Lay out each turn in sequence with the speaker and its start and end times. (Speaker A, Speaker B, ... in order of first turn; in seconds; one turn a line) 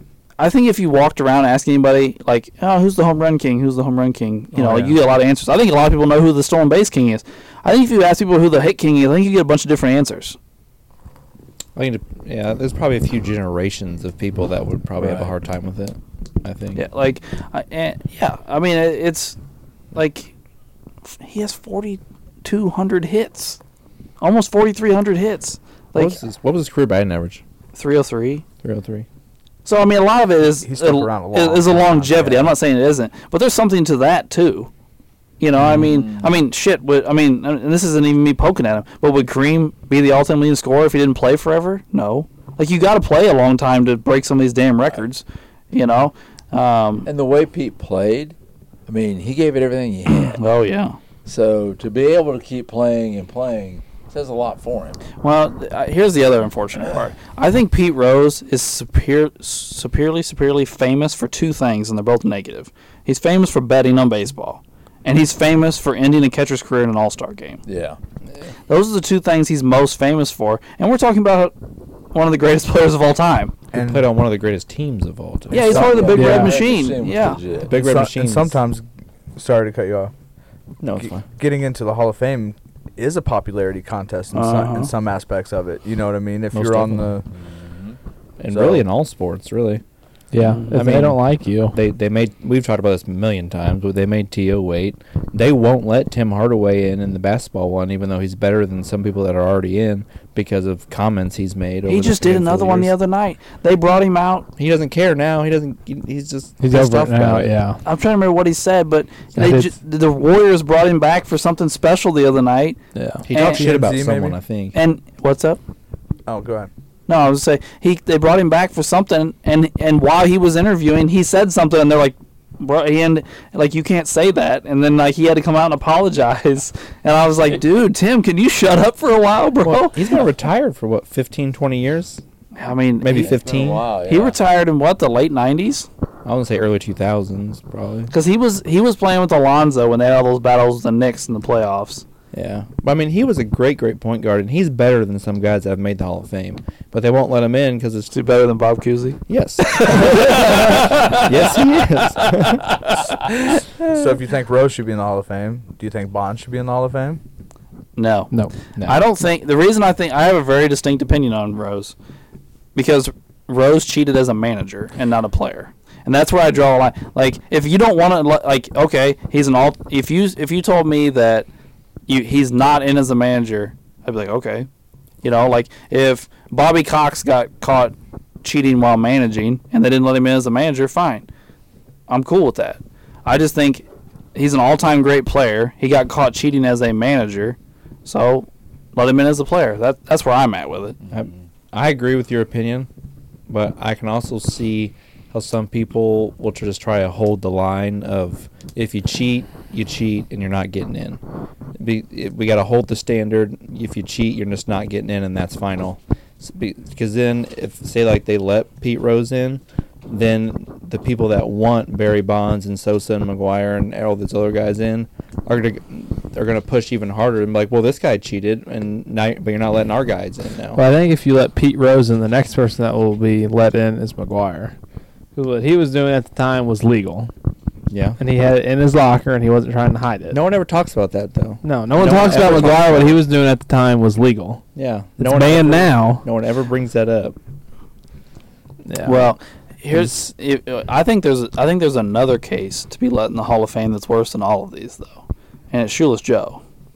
Speaker A: 0.4-10.4
Speaker B: 4.6-4.9
Speaker B: 11.8-16.8
Speaker C: 15.0-15.3
Speaker A: 16.7-19.4
Speaker A: 19.9-20.3
Speaker A: 21.1-23.6
Speaker A: 24.2-26.2
Speaker B: 25.9-27.4
Speaker A: 27.7-28.4
Speaker B: 28.6-29.1
Speaker A: 29.6-34.7
Speaker D: 30.6-32.5
Speaker A: 35.4-47.1
Speaker C: 35.8-36.3
Speaker C: 47.0-48.3
Speaker C: 48.9-50.4
Speaker A: 50.1-51.0
Speaker C: 51.2-55.0
Speaker A: 55.2-67.6
Speaker C: 67.7-68.0
Speaker A: 68.7-71.5
Speaker A: 72.1-73.5
Speaker D: 73.7-74.1
Speaker B: 73.7-76.1
Speaker A: 75.5-77.4
Speaker C: 75.6-77.7
Speaker E: 76.1-76.6
Speaker B: 77.6-78.6
Speaker D: 77.7-78.8
Speaker D: 79.3-80.1
Speaker B: 80.8-81.2
Speaker D: 81.0-87.2
Speaker A: 84.3-84.9
Speaker B: 86.5-87.1
Speaker C: 87.4-88.0
Speaker B: 88.4-89.8
Speaker D: 88.5-88.8
Speaker E: 90.3-91.8
Speaker B: 90.7-103.0
Speaker A: 101.9-104.5
Speaker B: 104.6-107.5
Speaker E: 106.6-107.8
Speaker A: 107.8-112.8
Speaker E: 109.4-109.7
Speaker E: 112.9-113.2
Speaker B: 113.2-114.8
Speaker A: 113.3-113.6
Speaker D: 113.3-114.4
Speaker A: 114.7-115.6
Speaker D: 116.3-116.7
Speaker A: 117.1-130.1
Speaker B: 129.6-132.2
Speaker A: 132.6-133.4
Speaker B: 133.0-133.9
Speaker C: 133.1-134.3
Speaker A: 133.9-135.9
Speaker B: 136.2-138.1
Speaker A: 138.1-142.0
Speaker B: 142.3-148.1
Speaker A: 148.1-151.2
Speaker B: 149.3-152.8
Speaker D: 153.8-157.2
Speaker A: 157.9-161.9
Speaker B: 158.8-159.0
Speaker A: 162.7-171.5
Speaker A: 172.1-174.7
Speaker A: 175.2-181.3
Speaker A: 182.1-191.0
Speaker B: 191.1-192.9
Speaker B: 193.5-201.2
Speaker B: 201.8-220.8
Speaker E: 220.7-224.7
Speaker E: 225.3-227.3
Speaker B: 227.9-228.2
Speaker E: 228.2-230.4
Speaker B: 230.3-233.2
Speaker E: 231.6-234.6
Speaker B: 234.7-237.3
Speaker E: 235.2-236.2
Speaker E: 238.8-239.4
Speaker A: 239.0-246.6